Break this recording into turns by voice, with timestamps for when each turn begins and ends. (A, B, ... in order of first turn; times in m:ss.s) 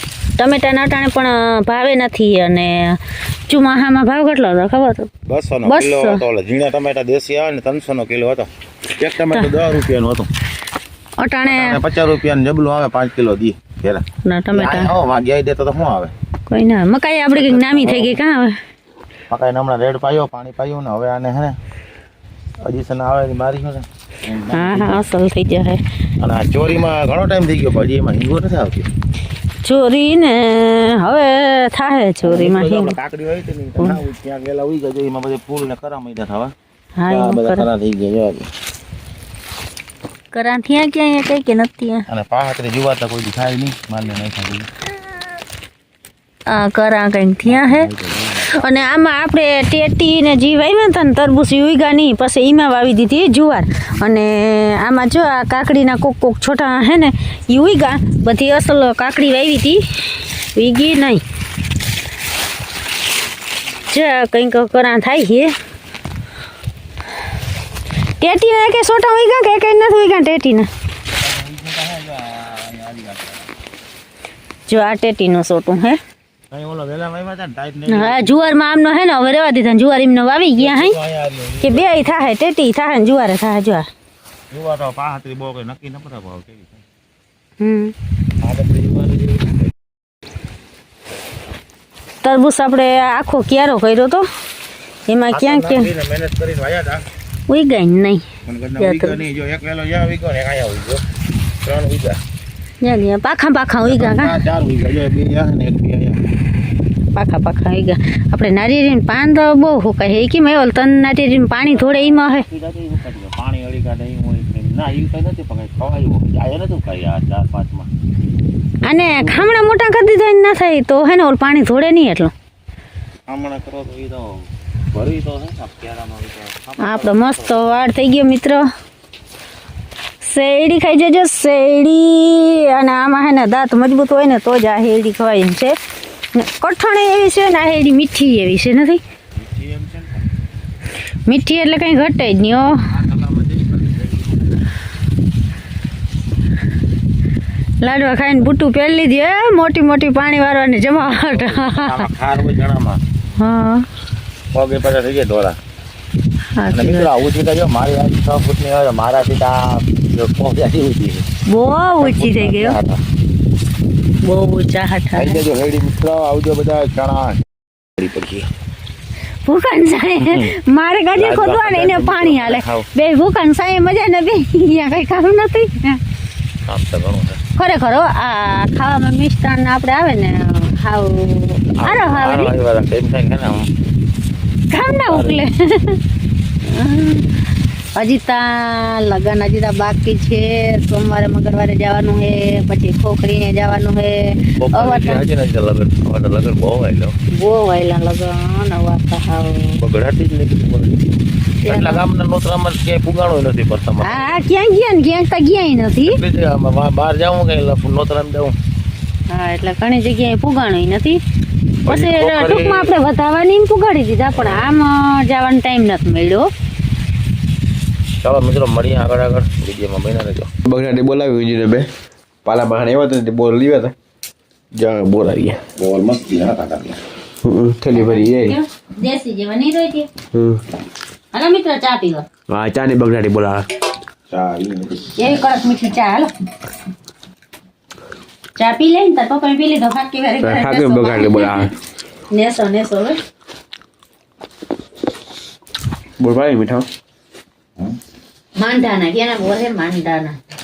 0:00.4-0:05.1 A
0:05.2-0:10.3 B
0:05.7-0:06.2 A
0:11.2-0:11.8 A
0:11.5-0:16.1 B
0:14.2-0:14.9 A
0:16.5-0:18.6 A
0:17.3-0:18.2 B
0:19.3-0:21.6 B
0:22.6-0:25.0 B
0:24.5-0:25.8 A
0:26.2-0:28.9 B
0:29.6-0:32.9 A
0:32.2-0:36.5 B
0:37.0-0:37.7 A
0:37.1-0:38.5 B
0:40.3-0:42.0 A
0:42.1-0:44.7 B
0:46.5-0:47.9 A
0:47.4-0:48.6 B
0:48.5-1:01.2 A
1:03.9-1:05.5 A
1:08.2-1:10.7 A
1:11.1-1:13.5 B
1:14.7-1:16.0 A
1:16.5-1:18.6 B
1:17.9-1:21.0 A
1:20.6-1:22.2 B
1:21.6-1:23.8 A
1:24.5-1:26.8 B
1:27.6-1:27.9 A
1:28.4-1:29.6 B
1:32.2-1:34.3 A
1:35.1-1:35.8 A
1:35.3-1:37.0 B
1:37.5-1:38.2 A
1:38.5-1:41.0 B
1:38.8-1:39.2 A
1:41.6-1:42.2 B
1:42.8-1:44.3 A
1:43.8-1:46.2 B
1:47.2-1:52.4 A
1:51.7-1:57.9 B
1:58.8-2:02.3 A
1:59.0-1:59.5 B
2:03.3-2:07.6 B
2:06.8-2:08.6 A
2:10.2-2:15.7 A
2:16.3-2:19.0 A
2:19.4-2:20.2 B
2:21.3-2:22.8 A
2:22.7-2:24.5 B
2:27.8-2:32.0 A
2:31.1-2:33.0 B
2:33.4-2:33.8 A
2:34.5-2:35.6 B
2:36.6-2:37.1 A
2:36.7-2:41.2 B
2:41.5-2:42.8 A
2:42.0-2:43.0 B
2:44.2-2:45.4 A
2:45.2-2:47.4 B
2:48.0-2:48.5 B
2:49.5-2:56.0 A
2:50.2-2:50.5 B
2:51.1-2:52.9 B
2:56.7-2:57.4 B
2:57.6-3:02.5 A
3:01.7-3:03.7 B
3:04.7-3:06.0 A
3:05.1-3:05.5 B
3:06.7-3:07.3 A
3:08.0-3:15.2 A
3:14.6-3:17.1 B
3:17.3-3:19.8 A
3:19.8-3:21.0 B
3:21.6-3:22.0 A
3:21.7-3:24.4 B
3:24.0-3:26.2 A
3:26.0-3:28.5 B
3:29.3-3:31.2 A
3:31.8-3:36.5 A
3:31.8-3:32.9 B
3:34.3-3:34.8 B
3:38.2-3:40.5 B
3:40.7-3:41.9 C
3:42.4-3:44.0 C
3:44.7-3:45.6 C
3:45.8-3:47.0 B
3:47.4-3:48.6 C
3:47.9-3:50.1 A
3:50.3-3:50.6 C
3:51.3-3:52.3 A
3:52.5-3:53.7 C
3:54.3-3:55.2 B
3:55.2-3:56.3 A
3:58.6-4:01.7 A
4:00.4-4:01.7 C
4:02.3-4:03.2 A
4:06.2-4:06.9 C
4:08.6-4:10.4 A